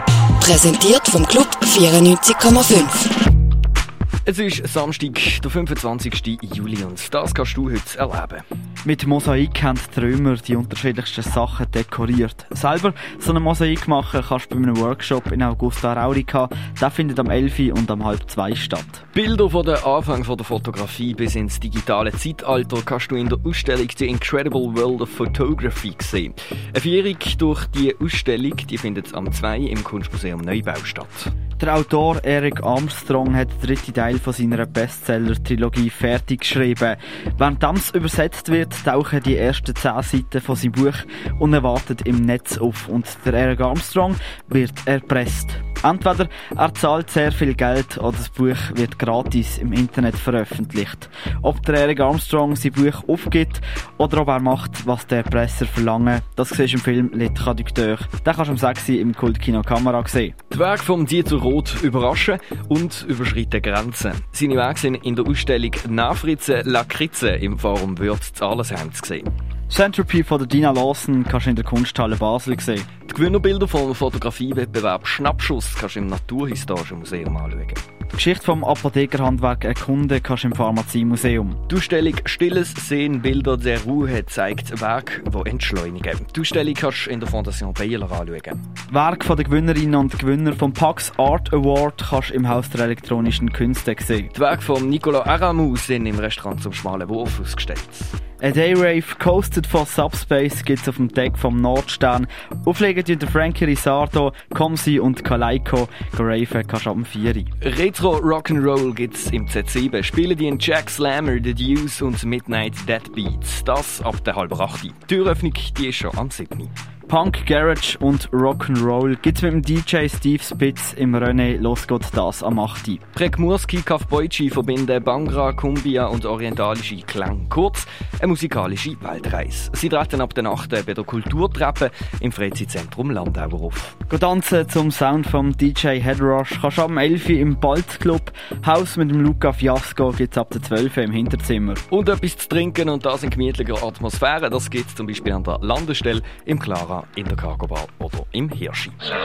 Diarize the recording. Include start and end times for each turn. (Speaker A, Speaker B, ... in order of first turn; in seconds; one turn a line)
Speaker A: 0.4-3.1
Speaker B: 4.2-8.4
Speaker C: 8.8-19.0
Speaker B: 19.1-31.3
Speaker C: 31.6-60.3
Speaker B: 60.5-69.3
Speaker C: 69.7-72.9
Speaker B: 73.0-77.8
Speaker C: 78.1-81.6
Speaker B: 81.7-88.6
Speaker C: 88.9-94.3
Speaker B: 94.3-98.1
Speaker C: 98.4-107.5
Speaker B: 107.6-116.7
Speaker C: 117.1-123.0
Speaker B: 123.1-133.9
Speaker C: 134.1-141.8
Speaker B: 141.9-149.0